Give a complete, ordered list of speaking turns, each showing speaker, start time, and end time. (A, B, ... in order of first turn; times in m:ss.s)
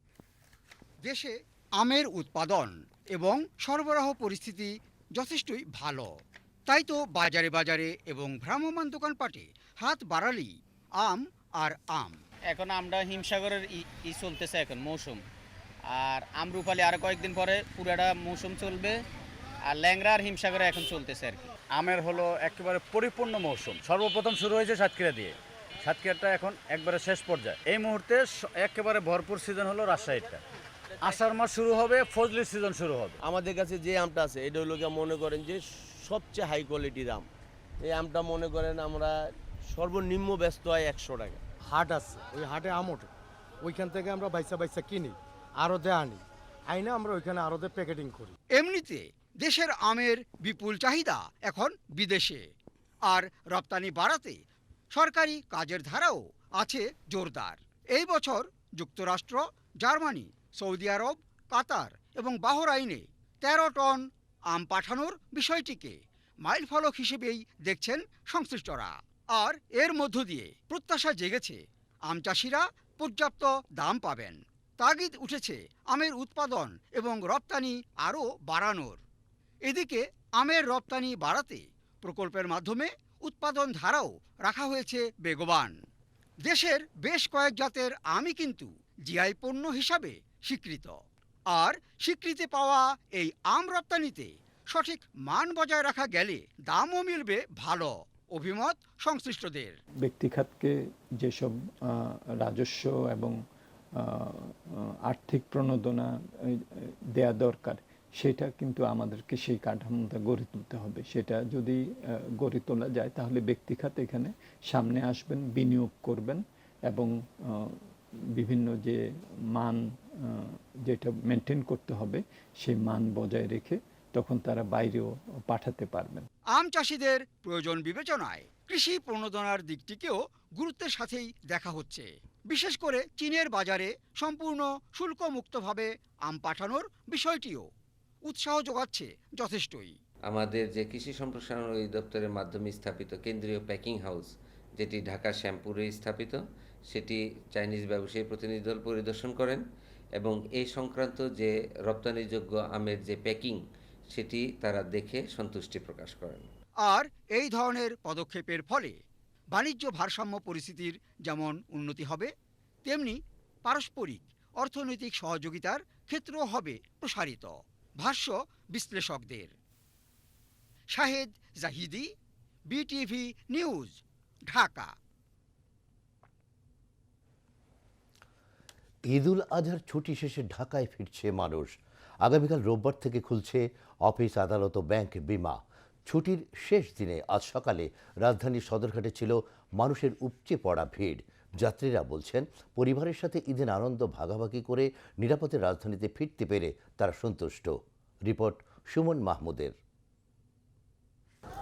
0:01.0-0:12.2 A
0:12.5-0:15.2 B
0:15.9-0:19.0 B
0:19.7-0:21.5 B
0:21.7-0:30.4 C
0:31.0-0:33.2 C
0:33.2-0:37.2 D
0:37.8-0:39.1 D
0:39.7-0:41.4 D
0:41.7-0:43.1 E
0:43.6-0:48.3 E
0:48.5-0:52.4 A
0:53.1-0:54.4 A
0:54.9-1:19.0 A
1:19.6-1:25.8 A
1:26.4-1:31.0 A
1:31.5-1:39.8 A
1:40.0-1:43.4 F
1:44.0-2:06.2 F
2:06.5-2:17.7 A
2:18.2-2:19.9 A
2:20.3-2:26.4 G
2:26.9-2:29.6 G
2:30.2-2:33.6 G
2:34.1-2:36.5 G
2:36.8-2:39.0 A
2:39.5-2:42.3 A
2:42.8-2:49.5 A
2:50.9-2:52.1 A
2:52.7-2:54.9 A
2:59.1-3:19.8 H